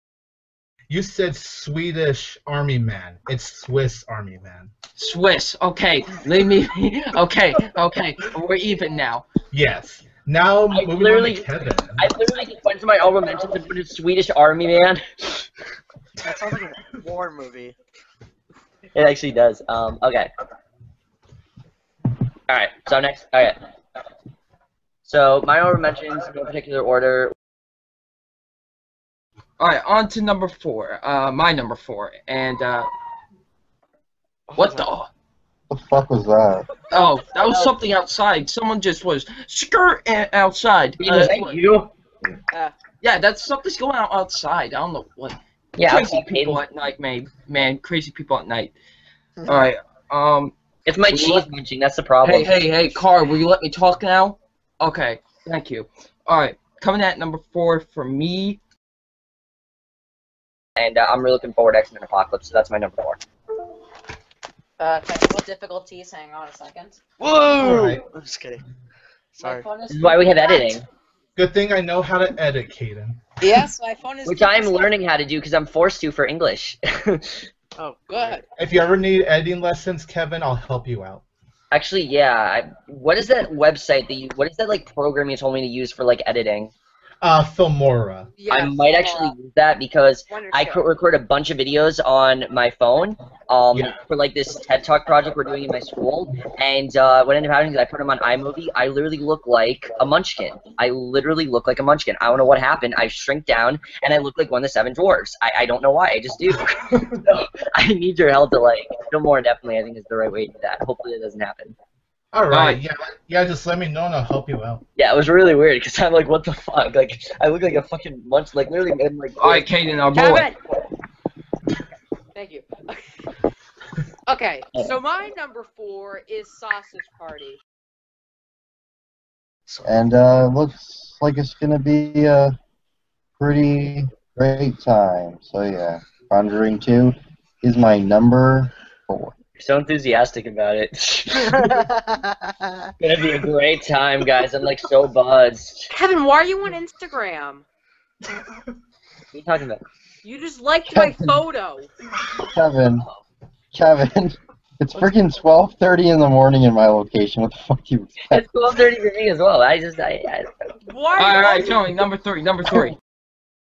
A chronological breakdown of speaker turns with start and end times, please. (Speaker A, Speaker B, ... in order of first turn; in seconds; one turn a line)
Speaker A: 0.9-4.7
Speaker B: 5.0-9.2
Speaker A: 9.5-12.2
Speaker C: 10.7-15.0
Speaker D: 16.2-17.8
Speaker C: 18.9-20.3
Speaker C: 22.5-23.6
Speaker C: 25.1-27.3
Speaker B: 29.6-32.9
Speaker D: 34.5-34.9
Speaker B: 34.6-35.1
Speaker E: 35.7-36.7
Speaker B: 36.9-41.6
Speaker C: 41.0-41.9
Speaker B: 43.0-48.7
Speaker C: 45.8-46.6
Speaker B: 49.5-50.5
Speaker C: 50.9-52.5
Speaker B: 51.1-51.5
Speaker B: 52.2-58.6
Speaker C: 60.8-63.2
Speaker F: 64.8-67.0
Speaker D: 67.2-68.6
Speaker A: 67.6-68.0
Speaker D: 69.3-69.7
Speaker F: 69.4-70.8
Speaker C: 69.9-70.8
Speaker A: 71.4-73.2
Speaker F: 73.4-74.9
Speaker C: 74.3-77.5
Speaker D: 77.8-78.4
Speaker F: 78.1-78.4
Speaker A: 78.6-81.2
Speaker C: 81.7-86.7
Speaker A: 87.2-88.4
Speaker F: 88.4-89.3
Speaker C: 88.5-111.8
Speaker F: 90.3-90.9
Speaker A: 93.7-94.0
Speaker A: 106.5-107.2
Speaker A: 112.3-114.8
Speaker B: 112.5-112.8
Speaker C: 115.0-119.7
Speaker B: 119.4-120.5
Speaker F: 120.2-120.6
Speaker F: 122.3-123.0
Speaker F: 124.3-127.6
Speaker D: 129.7-130.0
Speaker E: 129.8-132.6
Speaker E: 133.4-139.3
Speaker C: 139.6-141.7
Speaker D: 141.4-142.9
Speaker C: 143.0-145.9
Speaker F: 145.9-147.7
Speaker A: 148.3-148.7
Speaker C: 149.3-149.8
Speaker F: 150.2-151.9
Speaker E: 150.9-151.3
Speaker E: 152.4-153.1
Speaker E: 153.7-158.5
Speaker C: 158.3-160.5
Speaker F: 160.8-161.9
Speaker B: 161.2-163.0